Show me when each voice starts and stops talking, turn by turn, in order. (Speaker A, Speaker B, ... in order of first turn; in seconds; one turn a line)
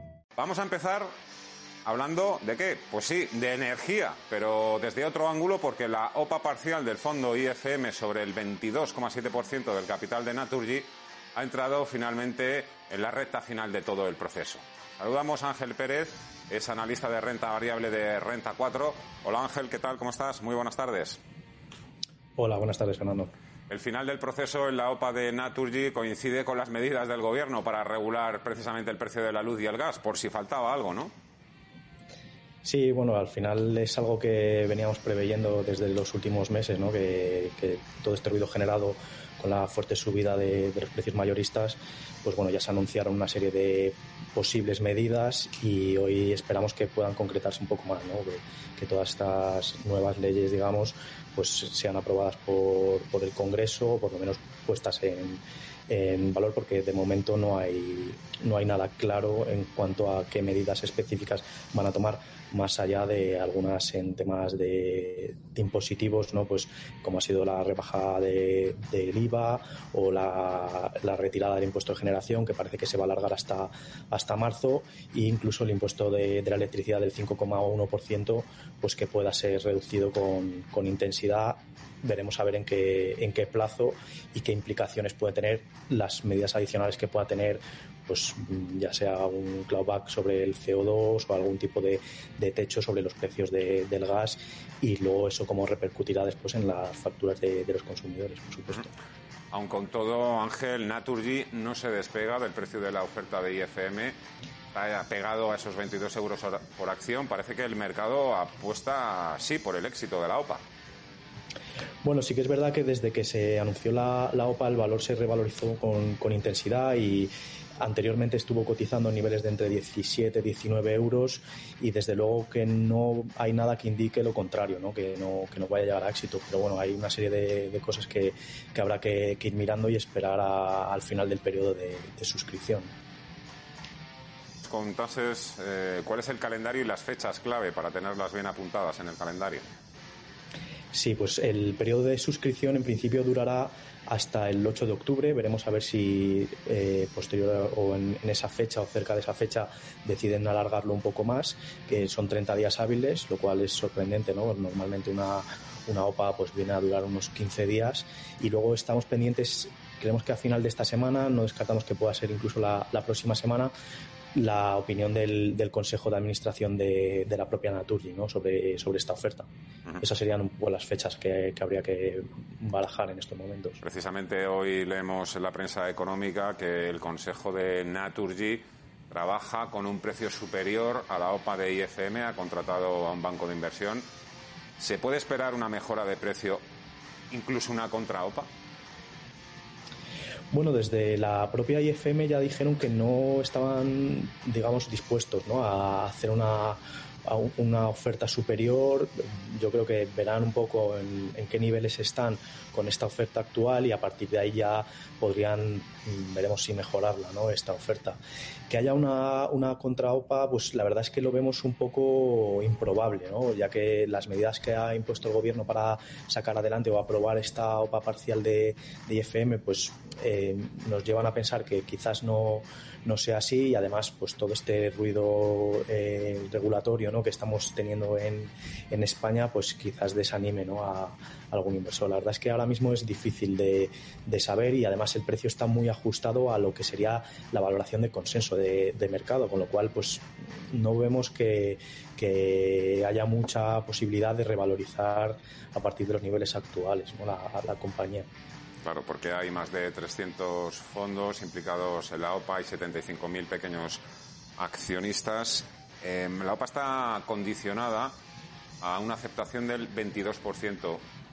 Speaker A: 0.4-1.1
Speaker A: 1.9-21.2
Speaker B: 22.4-23.3
Speaker A: 23.7-31.1
Speaker B: 32.6-98.9
Speaker A: 99.5-104.2
Speaker A: 104.7-110.6
Speaker B: 112.0-132.9
Speaker A: 134.6-139.7
Speaker B: 140.9-163.7
Speaker B: 164.3-173.8
Speaker A: 173.8-184.0
Speaker A: 184.8-186.6
Speaker A: 187.3-188.5
Speaker B: 190.5-248.3
Speaker A: 248.8-254.0
Speaker A: 254.6-258.1
Speaker A: 258.8-261.1